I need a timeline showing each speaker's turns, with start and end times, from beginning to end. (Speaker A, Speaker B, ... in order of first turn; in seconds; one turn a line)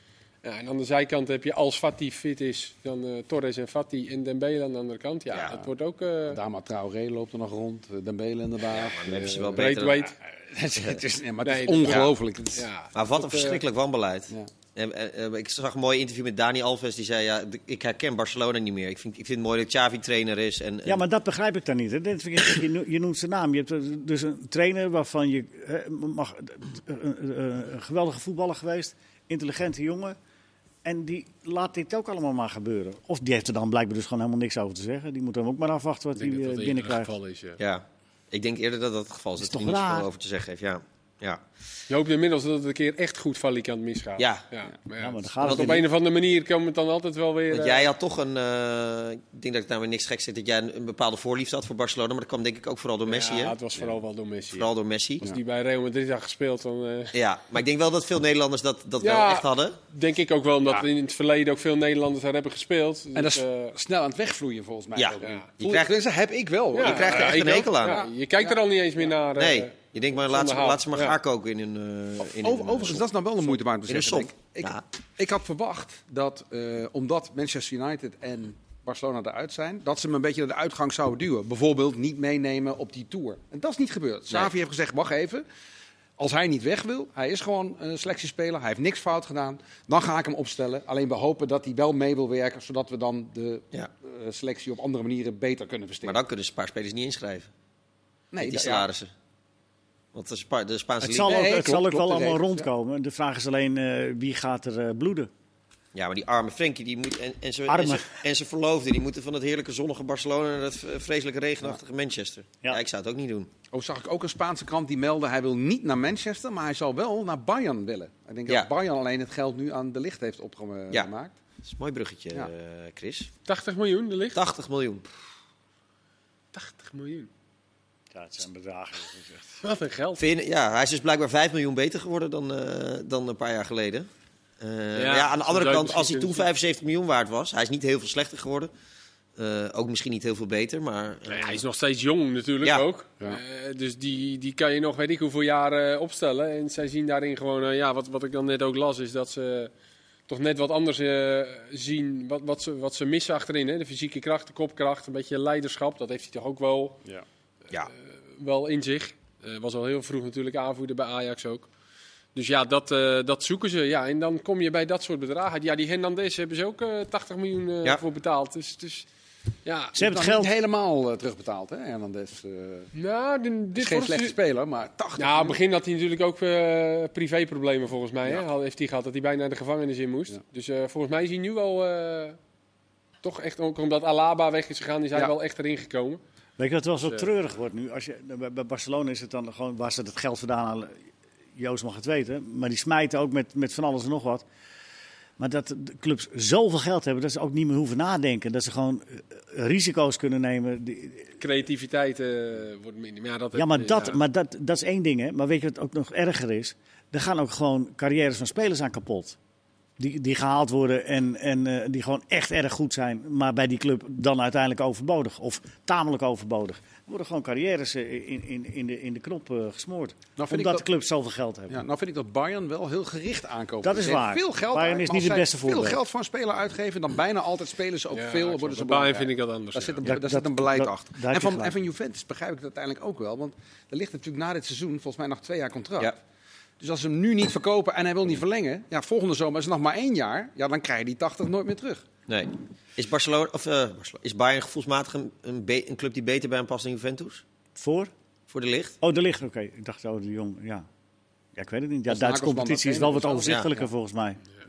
Speaker A: 0.4-6.4
Speaker B: 5.3-5.6
Speaker C: 6.3-9.7
Speaker B: 8.7-10.0
Speaker A: 9.1-10.1
Speaker C: 10.2-12.7
Speaker A: 11.4-13.6
Speaker B: 12.9-21.0
Speaker D: 20.8-30.1
Speaker D: 30.8-37.1
Speaker A: 36.1-37.6
Speaker B: 37.6-41.4
Speaker D: 39.4-40.1
Speaker A: 41.9-47.9
Speaker B: 44.2-44.4
Speaker D: 45.0-45.9
Speaker B: 45.4-45.8
Speaker B: 47.5-53.5
Speaker A: 53.0-54.7
Speaker B: 54.5-55.2
Speaker A: 55.2-57.1
Speaker B: 57.1-59.8
Speaker A: 59.0-63.7
Speaker C: 63.1-69.1
Speaker B: 65.0-65.9
Speaker A: 65.2-65.5
Speaker A: 66.7-71.2
Speaker B: 66.8-68.0
Speaker B: 69.3-74.8
Speaker C: 72.2-85.4
Speaker C: 86.2-96.2
Speaker B: 96.0-97.5
Speaker C: 98.3-98.9
Speaker B: 98.4-99.1
Speaker B: 100.1-101.5
Speaker D: 101.0-105.3
Speaker C: 101.2-102.7
Speaker B: 105.9-113.5
Speaker D: 107.7-108.1
Speaker C: 113.7-121.3
Speaker B: 121.6-123.3
Speaker A: 123.5-124.4
Speaker B: 124.3-125.0
Speaker A: 126.5-127.3
Speaker D: 128.1-129.6
Speaker A: 129.6-130.2
Speaker B: 130.2-134.1
Speaker B: 134.6-138.7
Speaker A: 134.9-136.5
Speaker B: 139.4-141.6
Speaker A: 141.3-149.7
Speaker A: 150.3-157.0
Speaker A: 158.3-161.7
Speaker A: 162.3-169.1
Speaker A: 169.6-169.9
Speaker D: 169.9-170.5
Speaker C: 170.0-172.9
Speaker A: 172.9-174.4
Speaker C: 173.8-175.6
Speaker A: 175.2-182.4
Speaker A: 183.2-186.2
Speaker D: 186.6-191.0
Speaker D: 191.6-194.4
Speaker D: 195.4-201.3
Speaker A: 201.4-204.2
Speaker D: 203.5-209.4
Speaker D: 210.0-221.8
Speaker C: 220.4-220.8
Speaker C: 221.7-236.2
Speaker D: 223.8-226.0
Speaker A: 228.1-230.1
Speaker D: 230.0-231.7
Speaker C: 236.8-242.0
Speaker B: 242.3-247.4
Speaker D: 247.7-248.1
Speaker B: 248.5-249.0
Speaker D: 249.0-250.8
Speaker D: 251.5-254.4
Speaker C: 252.1-253.9